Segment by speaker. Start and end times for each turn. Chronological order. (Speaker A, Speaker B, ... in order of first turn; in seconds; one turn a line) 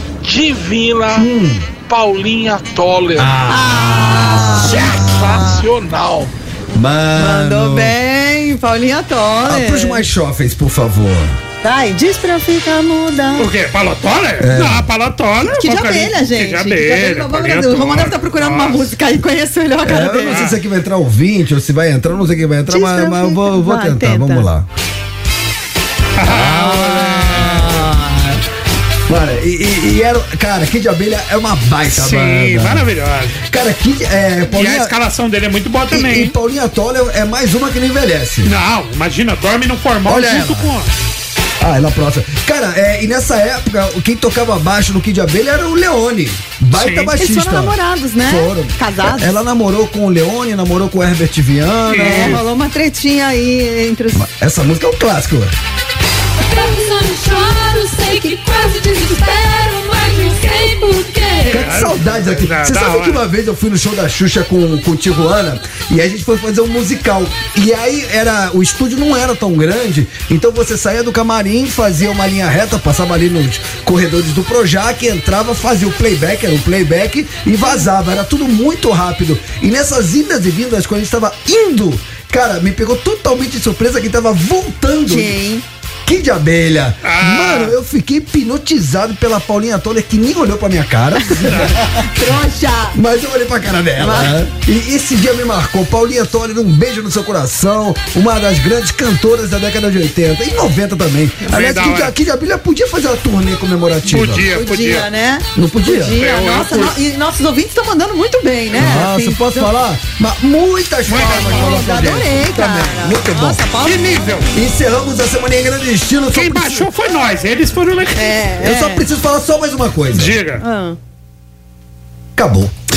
Speaker A: 0.2-1.3
Speaker B: 1.1-1.7
Speaker A: 1.8-3.3
Speaker B: 3.2-5.6
Speaker C: 3.5-5.2
Speaker A: 4.5-6.3
Speaker B: 6.7-7.9
Speaker C: 7.2-10.1
Speaker B: 9.4-11.4
Speaker C: 11.6-13.5
Speaker D: 13.4-18.9
Speaker B: 14.4-14.9
Speaker C: 15.4-20.4
Speaker B: 19.8-24.7
Speaker D: 20.3-20.6
Speaker C: 22.7-24.5
Speaker D: 26.1-27.7
Speaker B: 26.2-27.7
Speaker C: 26.9-28.4
Speaker B: 29.1-34.9
Speaker D: 31.9-33.4
Speaker D: 34.5-36.4
Speaker B: 35.9-38.5
Speaker D: 38.4-40.9
Speaker B: 40.0-40.7
Speaker B: 41.6-52.4
Speaker D: 46.7-47.1
Speaker C: 47.2-49.3
Speaker D: 51.9-52.4
Speaker C: 51.9-54.2
Speaker B: 54.1-55.5
Speaker E: 56.4-61.6
Speaker B: 61.5-85.3
Speaker D: 61.5-63.2
Speaker C: 85.1-85.6
Speaker B: 86.0-92.1
Speaker D: 87.0-87.7
Speaker C: 91.3-93.0
Speaker D: 91.5-91.7
Speaker B: 92.9-104.5
Speaker C: 94.0-94.4
Speaker D: 101.5-102.1
Speaker D: 104.1-105.1
Speaker C: 104.5-109.7
Speaker B: 105.5-106.2
Speaker D: 106.2-107.0
Speaker B: 108.7-113.6
Speaker D: 111.1-112.2
Speaker C: 111.3-114.4
Speaker D: 113.8-114.5
Speaker B: 114.5-116.9
Speaker D: 116.3-118.4
Speaker C: 118.1-119.1
Speaker B: 118.6-120.4
Speaker D: 120.1-120.6
Speaker C: 120.6-121.0
Speaker B: 122.3-122.7